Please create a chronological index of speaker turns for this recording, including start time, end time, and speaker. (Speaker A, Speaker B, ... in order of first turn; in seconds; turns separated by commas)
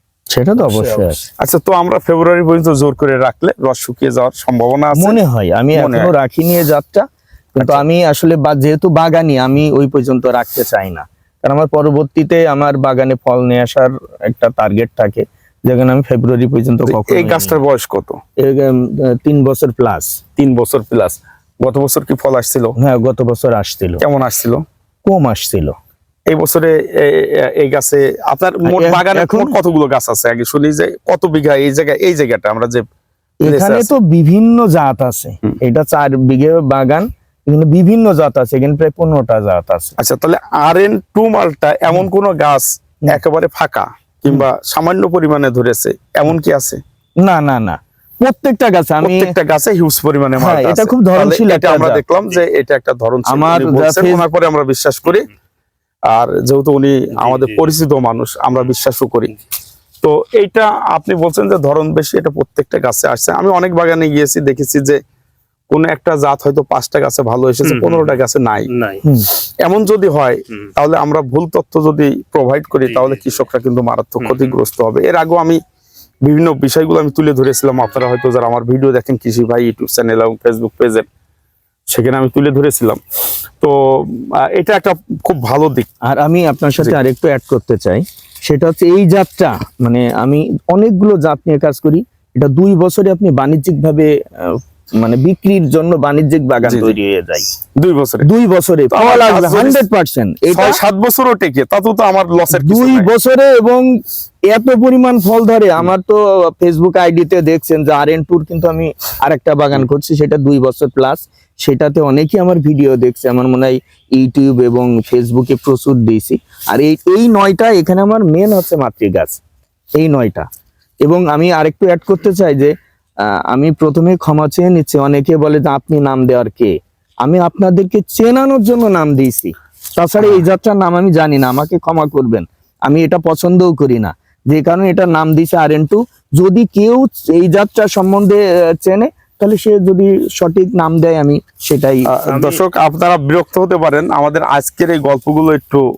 Speaker A: 0.3-1.2, Speaker B: 0.6-1.2, Speaker C: 1.4-5.2, Speaker A: 5.0-17.6, Speaker C: 5.7-6.1, Speaker C: 7.6-7.8, Speaker C: 16.9-18.2, Speaker A: 18.4-20.2, Speaker C: 20.4-22.8, Speaker A: 22.8-24.0, Speaker C: 24.0-24.6, Speaker A: 25.1-25.8, Speaker C: 26.3-32.9, Speaker A: 28.6-29.6, Speaker A: 33.4-40.0, Speaker C: 33.4-33.9, Speaker C: 40.0-46.8, Speaker A: 47.2-49.3, Speaker C: 49.0-55.3, Speaker A: 50.4-52.0, Speaker A: 53.3-54.3, Speaker C: 56.1-59.3, Speaker B: 57.1-57.7, Speaker C: 60.0-65.0, Speaker C: 65.7-68.7, Speaker B: 67.6-69.0, Speaker C: 69.6-75.6, Speaker B: 72.8-73.4, Speaker B: 74.2-74.6, Speaker C: 76.2-81.1, Speaker C: 81.9-83.0, Speaker C: 83.6-85.9, Speaker A: 86.1-97.5, Speaker C: 96.6-97.0, Speaker C: 97.8-98.3, Speaker A: 98.2-100.8, Speaker C: 98.9-99.8, Speaker C: 100.5-103.1, Speaker A: 102.5-103.9, Speaker A: 104.5-119.4, Speaker A: 120.0-120.5, Speaker A: 121.0-122.7, Speaker A: 123.2-142.1, Speaker C: 142.1-145.8, Speaker B: 142.3-142.6